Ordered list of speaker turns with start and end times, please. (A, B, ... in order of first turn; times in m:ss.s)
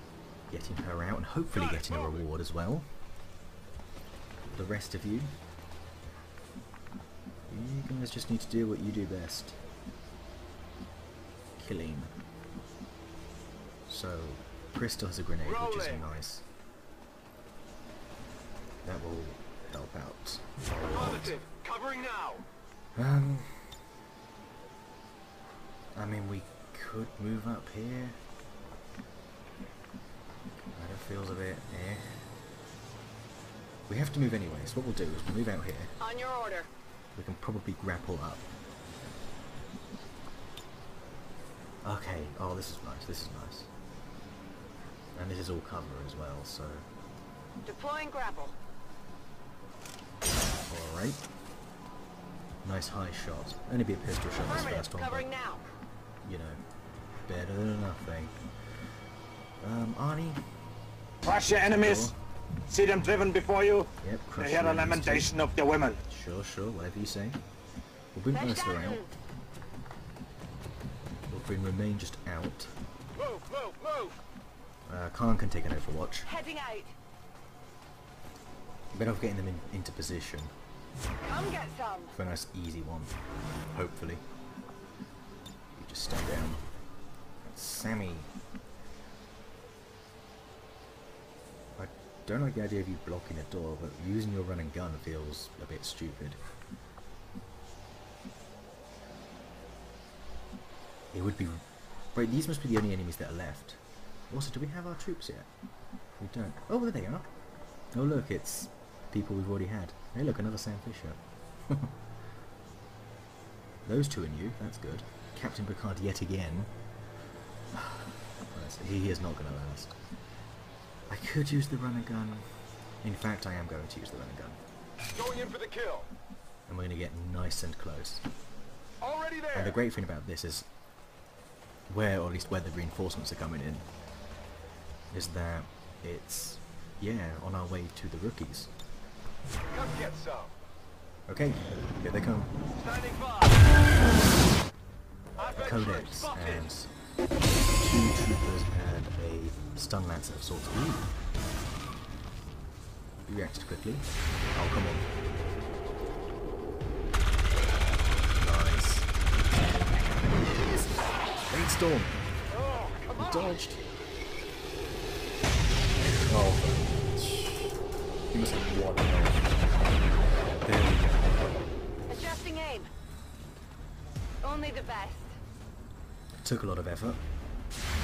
0:00.5-0:02.9 A
0:01.5-0:02.3 B
0:04.5-0:05.3 A
0:07.5-0:09.6 A
0:11.6-0:12.2 A
0:13.9-0:16.4 A
0:15.4-0:16.1 B
0:18.8-0:21.4 A
0:20.7-0:22.4 B
0:23.0-0:23.8 A
0:26.0-0:28.2 A
0:30.8-0:32.2 A
0:33.9-0:35.9 A
0:36.0-0:36.7 C
0:37.2-0:38.5 A
0:41.8-0:43.7 A
0:45.2-0:46.8 A
0:47.7-0:48.6 C
0:50.7-0:51.2 A
0:52.6-0:55.3 A
0:54.4-0:55.6 C
0:56.2-0:56.6 A
0:57.3-0:58.4 A
0:59.6-1:00.4 A
1:01.2-1:02.1 D
1:01.4-1:02.2 A
1:02.7-1:06.0 D
1:04.0-1:05.4 A
1:06.1-1:07.4 A
1:08.2-1:09.0 A
1:08.3-1:09.1 C
1:11.3-1:12.7 A
1:13.2-1:14.2 B
1:14.9-1:16.3 A
1:16.3-1:17.0 C
1:18.9-1:20.5 A
1:21.2-1:22.1 C
1:22.2-1:23.1 A
1:23.7-1:24.2 A
1:25.7-1:26.6 A
1:27.4-1:28.3 A
1:31.8-1:36.4 A
1:41.1-1:45.5 A
1:46.2-1:47.3 A
1:47.9-1:51.9 A
1:53.9-1:56.7 A
1:57.7-2:00.0 A
2:01.1-2:02.5 A
2:03.0-2:04.6 A
2:05.1-2:06.1 B
2:06.7-2:08.3 A
2:09.0-2:09.8 B
2:09.5-2:10.7 A
2:11.9-2:13.9 A
2:15.1-2:18.7 A
2:19.7-2:20.5 B
2:21.3-2:22.5 A
2:22.8-2:23.7 B
2:25.4-2:26.7 B
2:25.4-2:26.9 A
2:27.6-2:31.1 A
2:33.3-2:35.1 A
2:38.4-2:42.3 A
2:42.5-2:43.5 B
2:43.1-2:43.8 A
2:46.1-2:47.8 A
2:48.3-2:49.7 A
2:50.6-2:51.5 A
2:52.1-2:52.9 C
2:54.4-2:55.4 C
2:56.4-2:57.2 A